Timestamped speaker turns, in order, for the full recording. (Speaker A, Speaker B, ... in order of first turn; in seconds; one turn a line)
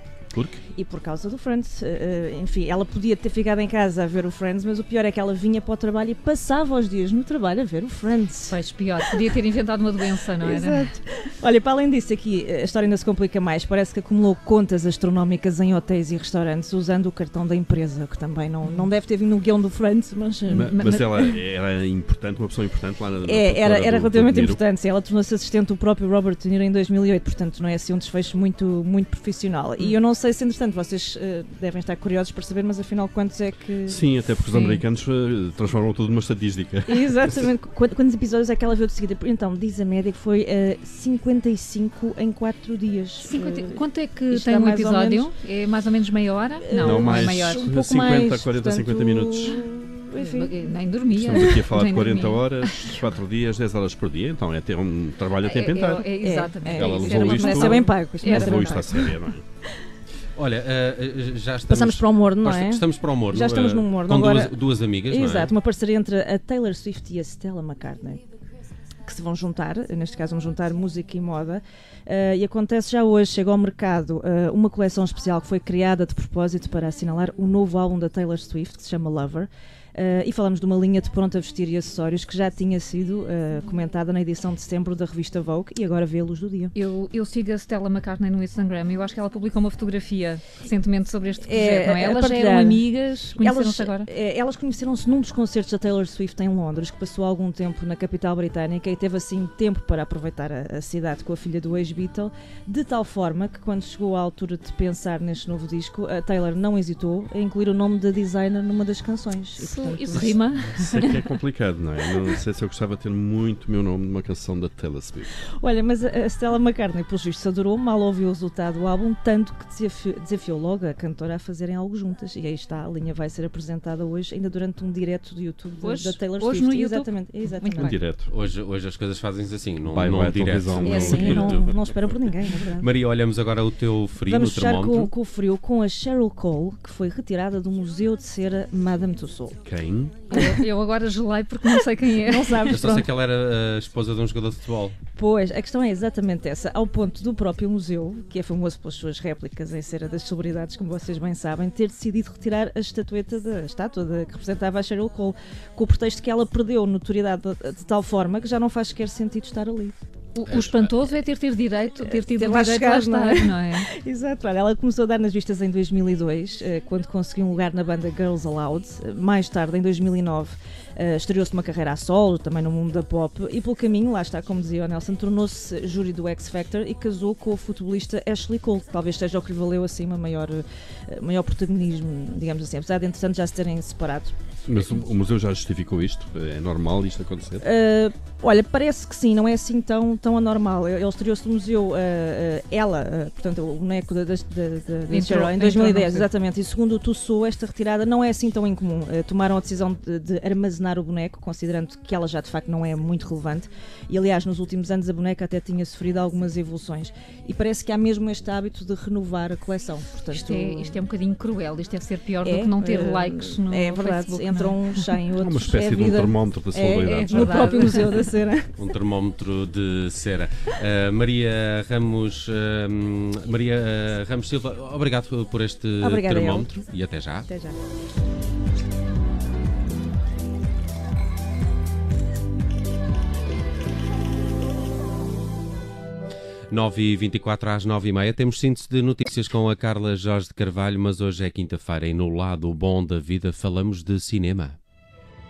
Speaker A: 0.3-0.6
Speaker B: 0.7-8.6
Speaker C: 8.5-10.9
Speaker B: 10.4-21.4
Speaker C: 18.6-18.9
Speaker A: 20.5-24.6
Speaker B: 23.2-34.0
Speaker A: 33.9-37.3
Speaker C: 34.4-34.8
Speaker B: 36.9-45.3
Speaker C: 43.2-47.6
Speaker B: 46.6-50.7
Speaker A: 46.8-49.6
Speaker C: 50.2-53.0
Speaker A: 51.1-59.4
Speaker C: 55.4-59.0
Speaker B: 56.1-59.2
Speaker D: 60.4-65.5
Speaker B: 61.7-64.5
Speaker B: 65.1-68.2
Speaker B: 69.0-86.8
Speaker C: 86.7-94.1
Speaker B: 91.4-111.1
Speaker C: 109.6-111.0
Speaker A: 110.8-115.3
Speaker B: 115.6-128.0
Speaker C: 125.8-127.9
Speaker A: 127.8-128.3
Speaker D: 128.3-131.6
Speaker A: 129.9-131.4
Speaker B: 130.8-132.9
Speaker C: 130.8-131.7
Speaker D: 132.8-135.1
Speaker B: 134.2-139.6
Speaker A: 139.6-140.2
Speaker C: 140.3-142.7
Speaker B: 140.3-140.6
Speaker B: 142.2-143.1
Speaker D: 142.7-145.0
Speaker B: 145.1-160.0
Speaker C: 160.3-163.9
Speaker D: 160.5-160.9
Speaker B: 162.0-184.4
Speaker A: 184.7-187.7
Speaker B: 187.6-211.0
Speaker C: 195.1-196.3
Speaker C: 210.3-215.1
Speaker B: 212.4-218.7
Speaker A: 215.4-218.0
Speaker C: 217.1-218.2
Speaker D: 218.7-227.5
Speaker B: 226.0-226.9
Speaker B: 227.5-227.8
Speaker D: 236.7-244.8